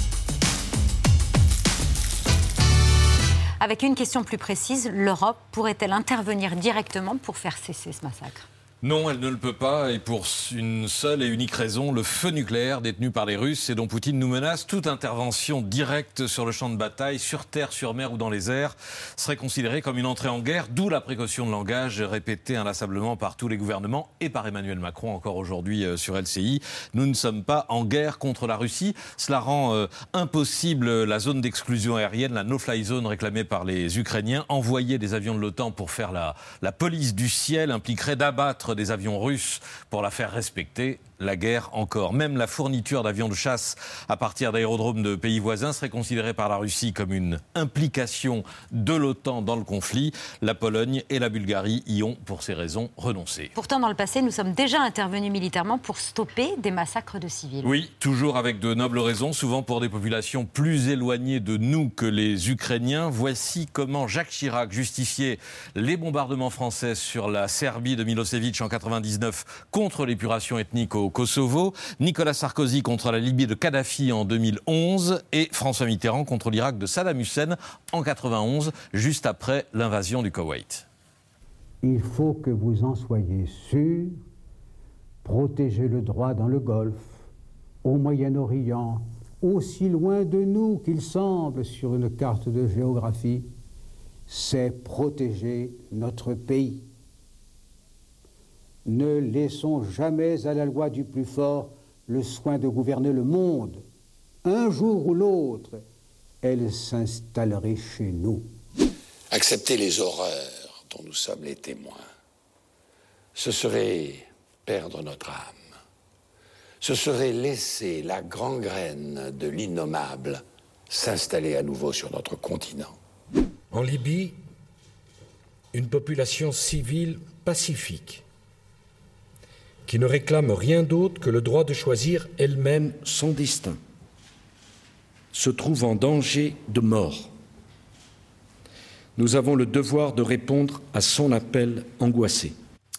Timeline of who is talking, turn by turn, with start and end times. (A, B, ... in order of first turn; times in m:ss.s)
0:03.6-0:08.4 A
0:08.8-0:53.5 B
0:53.6-0:57.7 A
0:57.6-1:20.8 B
1:21.8-1:24.2 C
1:25.2-1:27.1 C
1:27.8-1:33.4 C
1:34.3-1:36.8 C
1:38.8-1:43.8 C
1:44.4-1:45.8 C
1:46.4-1:48.4 C
1:49.3-1:52.0 D
1:53.4-1:55.6 D
1:56.8-2:02.9 D
2:03.8-2:04.3 E
2:05.8-2:08.2 E
2:09.9-2:13.8 E
2:15.3-2:17.3 E
2:19.2-2:22.5 E